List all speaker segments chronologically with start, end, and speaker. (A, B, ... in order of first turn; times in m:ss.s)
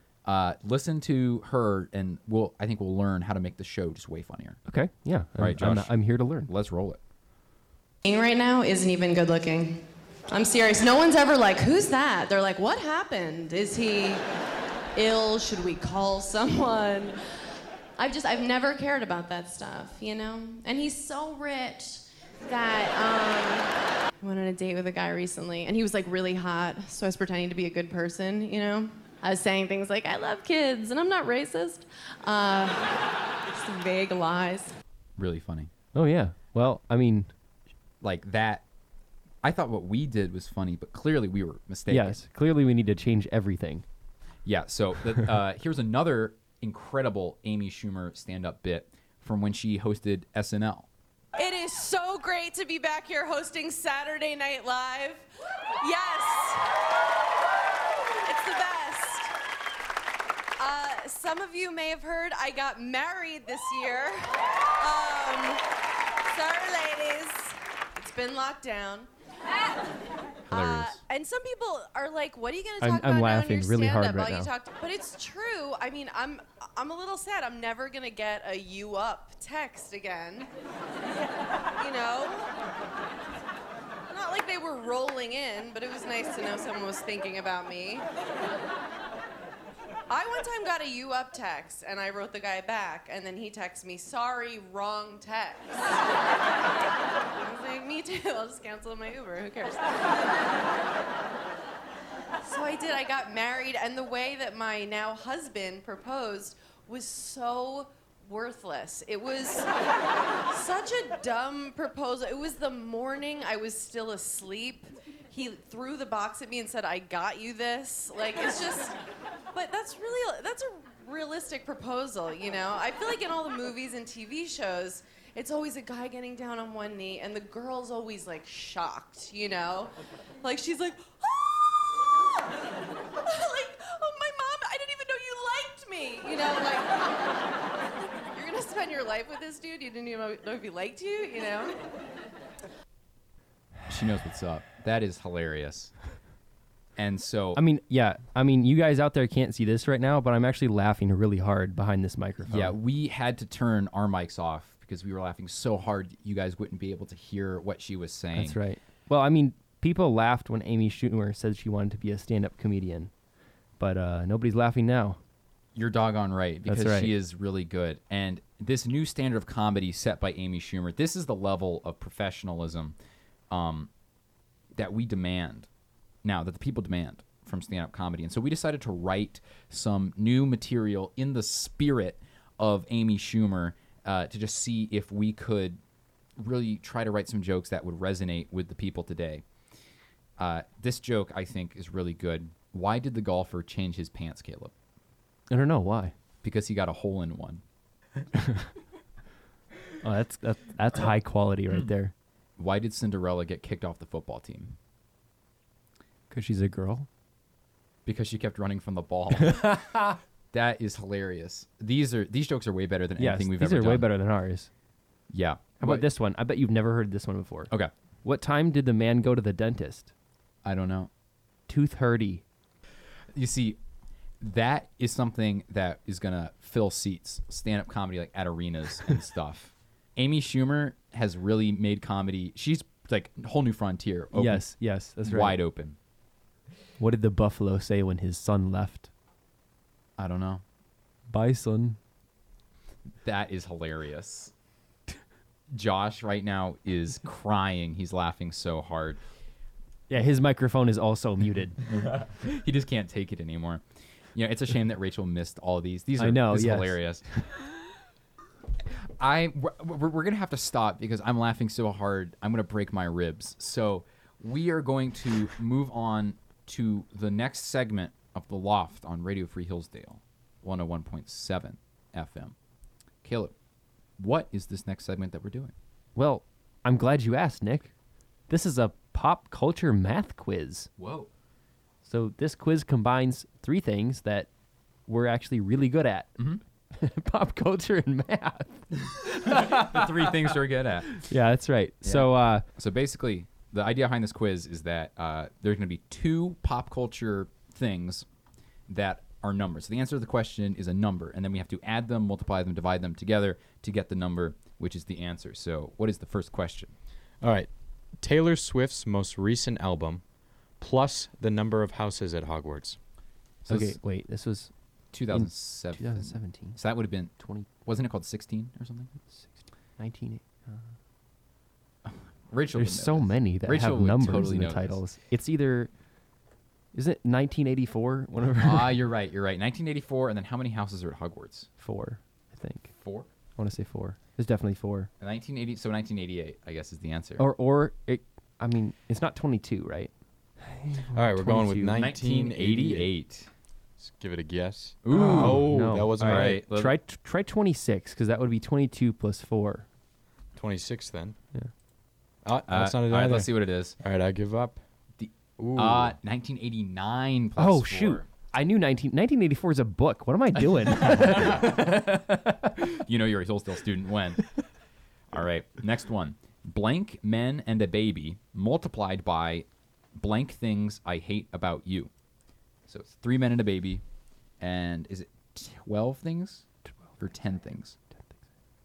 0:00.2-0:04.6 A
0:04.7-0:06.5 B
0:05.4-0:07.0 A
0:08.0-0:14.2 C
0:14.9-0:17.2 C
0:18.0-0:34.7 C
0:35.2-0:35.7 A
0:35.9-0:37.3 B
0:38.0-0:38.6 A
0:39.4-0:42.2 A
0:41.9-0:43.8 B
0:44.4-0:50.9 A
0:51.3-0:55.2 C
0:55.8-0:56.8 C
0:58.2-0:59.3 C
1:00.6-1:05.6 C
1:06.2-1:09.1 C
1:10.5-1:20.5 C
1:10.5-1:11.0 A
1:12.8-1:14.5 B
1:21.7-1:22.5 C
1:24.1-1:28.0 C
1:30.1-1:36.2 C
1:37.3-1:40.5 C
1:42.4-1:49.7 C
1:50.5-1:59.0 C
1:59.5-2:12.6 C
2:13.2-2:21.8 C
2:23.9-2:25.9 A
2:27.0-2:27.6 A
2:27.6-2:32.8 B
2:32.4-2:38.6 A
2:38.3-2:43.1 B
2:43.8-2:45.2 B
2:45.7-2:53.0 A
2:46.6-2:47.1 B
2:53.5-2:53.9 A
2:54.7-2:55.7 A
2:56.2-3:05.8 A
3:06.4-3:09.4 A
3:10.4-3:14.7 A
3:15.5-3:16.1 B
3:16.4-3:17.6 A
3:18.4-3:18.6 B
3:20.0-3:22.1 B
3:22.6-3:24.8 A
3:26.3-3:27.1 B
3:28.0-3:29.9 A
3:29.4-3:30.2 B
3:30.5-3:34.1 A
3:33.2-3:34.7 B
3:35.3-3:36.0 A
3:35.8-3:37.7 B
3:38.2-3:40.1 B
3:40.6-3:41.1 A
3:41.7-3:42.4 B
3:43.3-3:43.8 A
3:44.4-3:54.7 A
3:54.3-3:55.6 B
3:55.2-3:56.0 A
3:57.0-3:59.1 B
4:00.2-4:00.6 A
4:01.3-4:02.0 B
4:03.2-4:04.5 A
4:05.7-4:09.2 A
4:10.1-4:11.8 B
4:12.0-4:13.8 A
4:14.3-4:17.2 A
4:16.2-4:17.4 B
4:18.9-4:32.5 A
4:33.2-4:33.5 A
4:34.2-4:35.7 A
4:36.2-4:37.9 B
4:38.5-4:40.9 B
4:41.0-4:41.3 A
4:42.0-4:44.5 B
4:45.1-4:46.4 B
4:46.9-4:50.1 B
4:49.1-4:51.2 A
4:51.1-4:52.6 B
4:52.0-4:58.3 A
4:58.9-5:06.9 A
5:07.4-5:10.2 D
5:10.8-5:13.0 D
5:13.6-5:14.0 A
5:13.7-5:14.7 B
5:15.1-5:19.1 A
5:15.3-5:16.8 B
5:17.4-5:17.7 B
5:19.3-5:20.9 B
5:22.0-5:25.0 A
5:22.8-5:25.9 B
5:26.9-5:29.0 B
5:28.6-5:31.7 A
5:31.8-5:32.9 B
5:32.9-5:33.3 A
5:33.6-5:35.1 B
5:35.2-5:37.4 A
5:37.4-5:42.1 B
5:41.1-5:43.1 D
5:42.0-5:43.5 A
5:44.0-5:46.6 D
5:45.0-5:46.9 A
5:45.1-5:49.8 B
5:50.5-5:51.4 D
5:52.4-5:54.8 D
5:52.7-5:54.0 A
5:55.2-5:58.2 A
5:55.6-5:56.1 D
5:57.6-6:02.7 B
6:01.1-6:01.8 A
6:02.8-6:04.4 A
6:05.3-6:12.1 A
6:12.9-6:14.0 A
6:14.6-6:16.7 A
6:17.2-6:18.0 A